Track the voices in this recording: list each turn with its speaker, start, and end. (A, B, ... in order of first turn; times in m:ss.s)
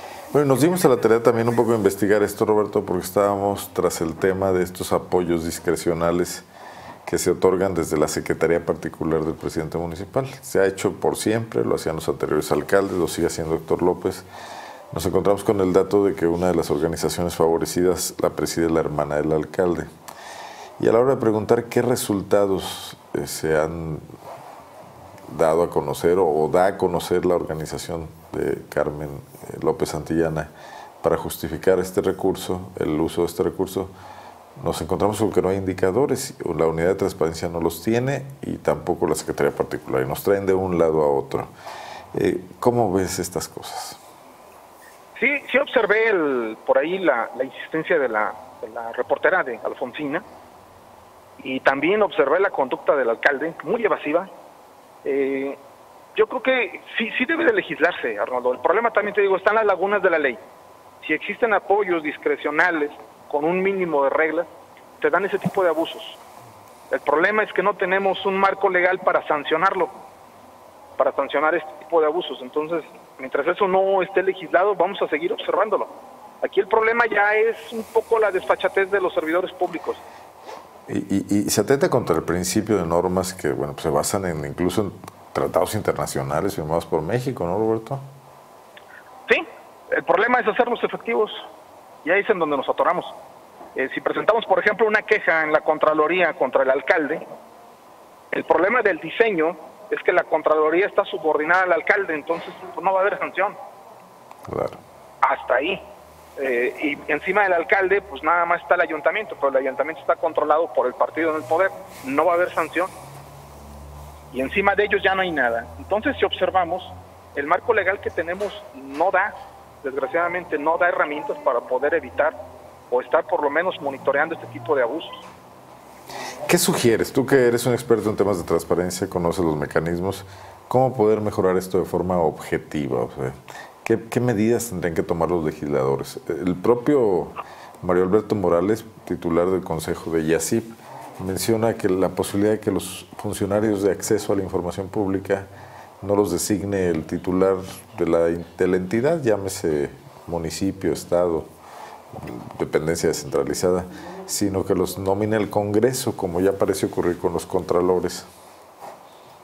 0:00.3-0:06.5 A
0:07.1-0:14.3 A
0:14.9-0:19.9 A
0:20.8-0:24.1 A
0:25.3-0:30.5 A
0:31.0-0:33.9 A
0:34.6-0:41.5 A
0:42.1-0:44.0 A
0:45.2-0:50.2 B
0:51.4-0:54.3 B
0:55.0-0:55.6 B
0:56.2-1:00.4 B
1:01.0-1:04.5 B
1:05.0-1:06.2 B
1:06.9-1:09.9 B
1:11.0-1:20.0 B
1:20.9-1:28.0 A
1:29.3-1:31.5 B
1:32.0-1:33.1 B
1:33.8-1:37.2 B
1:38.3-1:43.6 B
1:44.5-1:44.8 A
1:45.2-1:45.8 B
1:46.4-1:52.9 B
1:54.3-2:02.4 B
2:02.9-2:05.3 B
2:06.5-2:25.5 A
2:26.0-2:31.5 A
2:32.1-2:38.3 A